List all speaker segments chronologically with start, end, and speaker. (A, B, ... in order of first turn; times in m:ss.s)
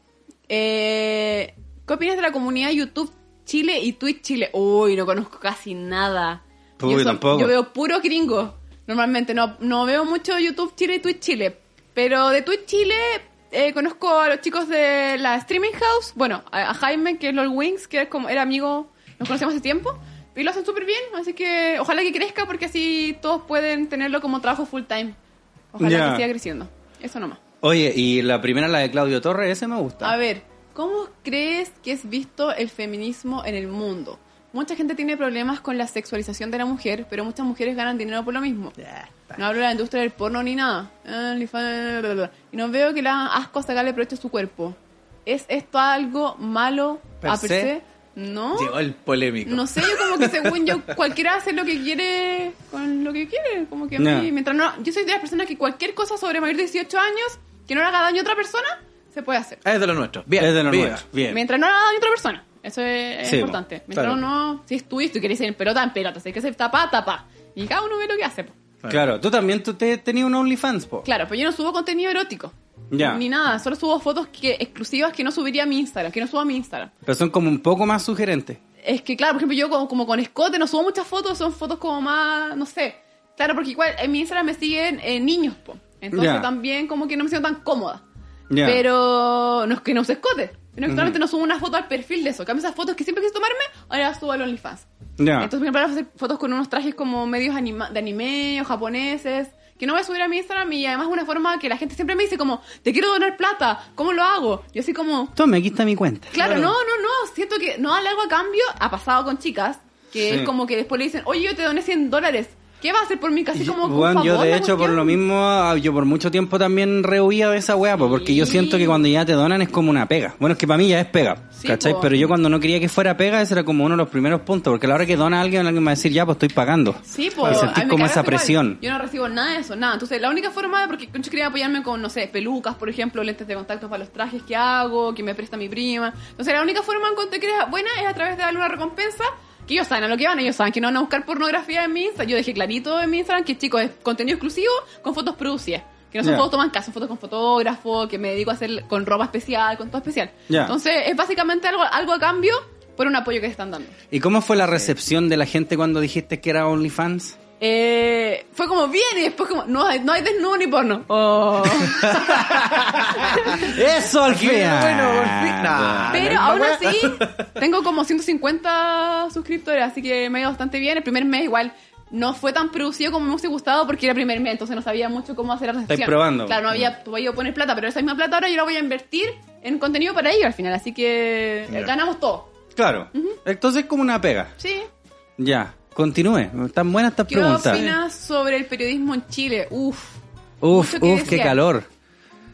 0:00.5-0:25.2 A
0:06.8-0:07.5 B
0:25.7-0:27.4 A
0:25.8-0:26.2 B
0:27.6-0:30.2 B
0:30.0-0:38.8 A
0:39.3-0:48.8 A
0:47.2-0:47.7 B
0:48.5-0:50.9 C
0:49.4-0:59.6 A
0:54.0-0:54.3 B
0:59.6-1:01.0 C
1:00.4-1:01.4 B
1:01.3-1:08.5 A
1:03.2-1:03.6 B
1:03.9-1:04.2 C
1:08.9-1:11.0 B
1:11.0-1:16.9 A
1:12.9-1:13.2 B
1:17.0-1:18.6 B
1:18.8-1:28.0 A
1:26.1-1:26.5 B
1:28.5-1:28.8 B
1:28.6-1:34.8 A
1:30.9-1:31.2 B
1:35.2-1:35.5 B
1:35.4-1:45.3 A
1:45.4-1:46.7 B
1:46.3-1:55.2 A
1:50.2-1:50.5 B
1:53.5-2:08.8 B
1:58.0-1:59.0 A
2:01.6-2:02.1 A
2:07.0-2:33.9 A
2:07.4-2:07.7 C
2:26.2-2:26.5 B
2:30.5-2:30.7 B
2:34.1-2:37.4 B
2:37.6-2:42.5 A
2:42.2-2:43.6 C
2:42.4-2:46.4 B
2:43.1-2:43.7 A
2:44.2-2:47.6 C
2:46.1-3:02.5 A
2:55.9-2:56.6 B
3:02.8-3:04.5 B
3:03.1-3:03.4 A
3:04.6-3:04.9 A
3:05.4-3:07.9 B
3:07.3-3:10.2 A
3:07.7-3:08.0 C
3:10.6-3:11.9 B
3:10.7-3:11.6 A